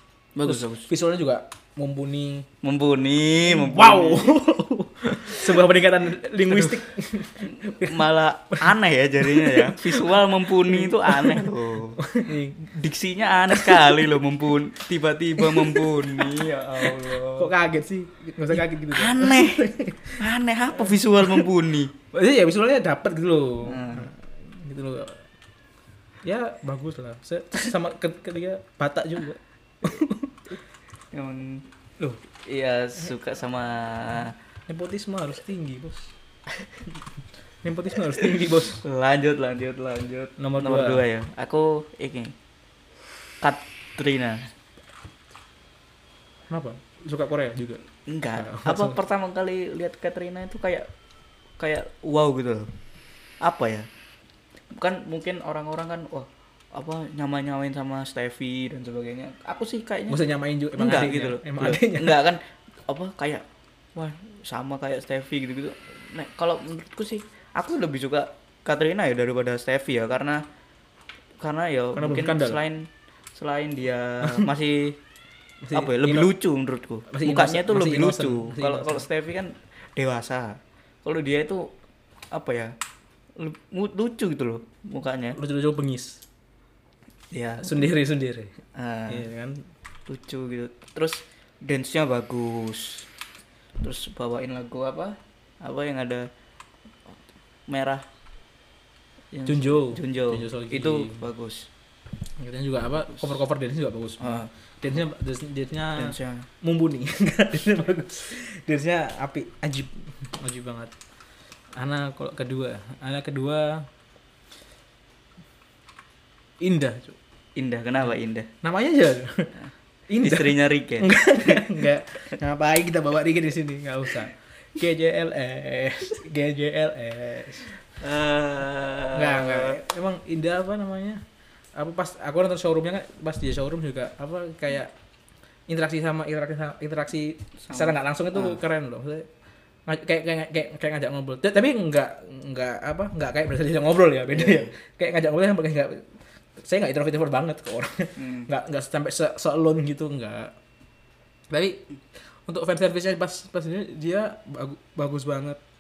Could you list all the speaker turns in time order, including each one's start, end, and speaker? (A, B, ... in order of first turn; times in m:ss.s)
0:00.4-0:00.9 A
0:00.4-0:02.5 B
0:02.6-0:04.4 A
0:03.5-0:12.7 B
0:05.2-0:05.6 A
0:06.5-0:06.8 A
0:07.5-0:12.0 A
0:12.7-0:17.5 A
0:13.5-0:14.2 B
0:15.4-0:20.2 B
0:18.6-0:19.7 A
0:20.2-0:21.9 A
0:20.9-0:21.4 B
0:22.1-0:25.2 B
0:23.6-0:24.1 A
0:26.2-0:30.4 B
0:31.1-0:31.6 A
0:32.3-0:34.4 A
0:34.7-0:36.1 B
0:37.6-0:38.8 B
0:38.8-0:42.3 A
0:40.4-0:41.0 B
0:43.4-0:44.5 A
0:46.5-0:49.0 B
0:48.1-0:50.9 A
0:51.6-0:52.7 A
0:53.4-0:53.9 A
0:54.7-1:00.2 A
1:00.1-1:02.2 B
1:00.7-1:10.4 A
1:11.4-1:15.0 A
1:12.0-1:12.6 B
1:14.2-1:14.5 B
1:15.6-1:16.3 B
1:15.7-1:21.7 A
1:17.1-1:19.0 B
1:22.3-1:22.8 A
1:23.4-1:25.4 A
1:25.3-1:26.2 B
1:27.3-1:27.9 A
1:27.6-1:28.6 B
1:28.8-1:29.3 A
1:29.1-1:29.6 B
1:30.1-1:33.1 A
1:33.8-1:36.3 A
1:37.7-1:38.0 A
1:39.3-1:41.7 A
1:39.5-1:41.3 B
1:42.4-1:50.9 B
1:44.2-1:45.0 A
1:46.0-1:46.5 A
1:51.8-1:53.9 B
1:56.6-1:57.2 B
1:57.6-1:58.5 A
1:58.6-1:59.5 B
2:00.1-2:07.7 B
2:00.2-2:01.9 A
2:08.0-2:09.8 A
2:09.1-2:11.2 B
2:11.8-2:14.9 B
2:15.7-2:19.3 B
2:17.6-2:18.6 A
2:19.9-2:26.0 B
2:24.3-2:24.7 A
2:26.6-2:30.5 B
2:28.2-2:28.5 A
2:31.5-2:31.8 B
2:32.5-2:35.6 B